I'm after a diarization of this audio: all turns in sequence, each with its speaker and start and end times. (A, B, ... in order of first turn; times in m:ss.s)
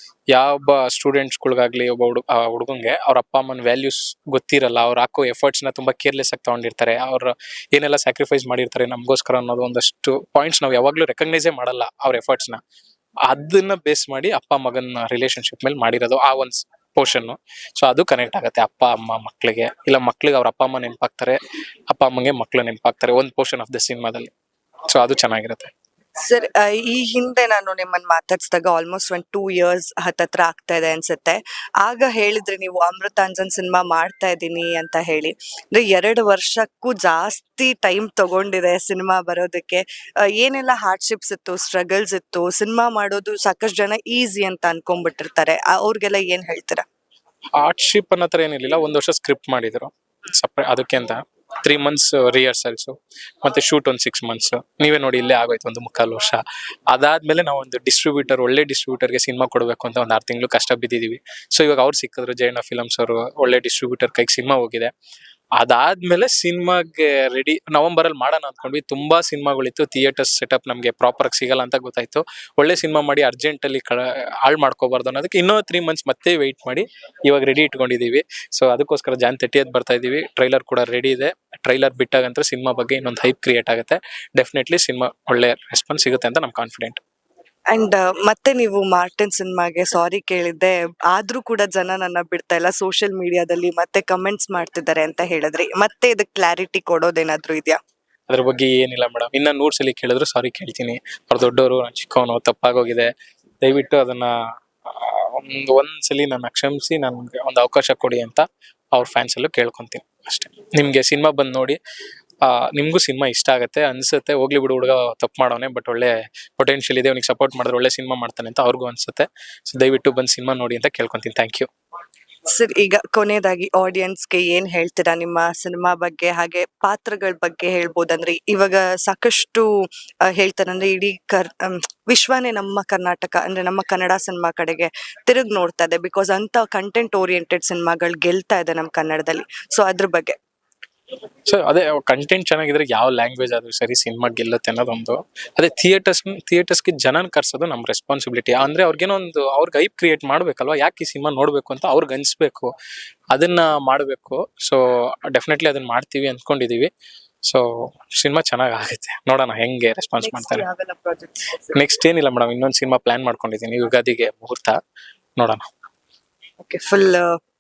0:00.3-0:12.6 A
0:13.3-0:21.4 A
0:21.9-0:24.3 A
0:24.9-0:25.7 A
0:26.2-0:46.8 B
0:47.6-1:04.9 A
1:05.6-1:27.0 A
1:27.7-1:37.8 B
1:38.3-1:43.1 A
1:43.6-1:44.3 A
1:44.9-1:48.4 A
1:49.0-1:51.8 A
1:52.4-2:01.7 A
2:02.5-2:09.7 B
2:10.3-2:20.4 B
2:21.5-2:32.7 A
2:33.3-2:36.9 A
2:38.2-2:40.6 A
2:40.2-2:41.8 B
2:41.7-2:44.8 A
2:45.4-2:45.7 A
2:46.6-2:47.3 B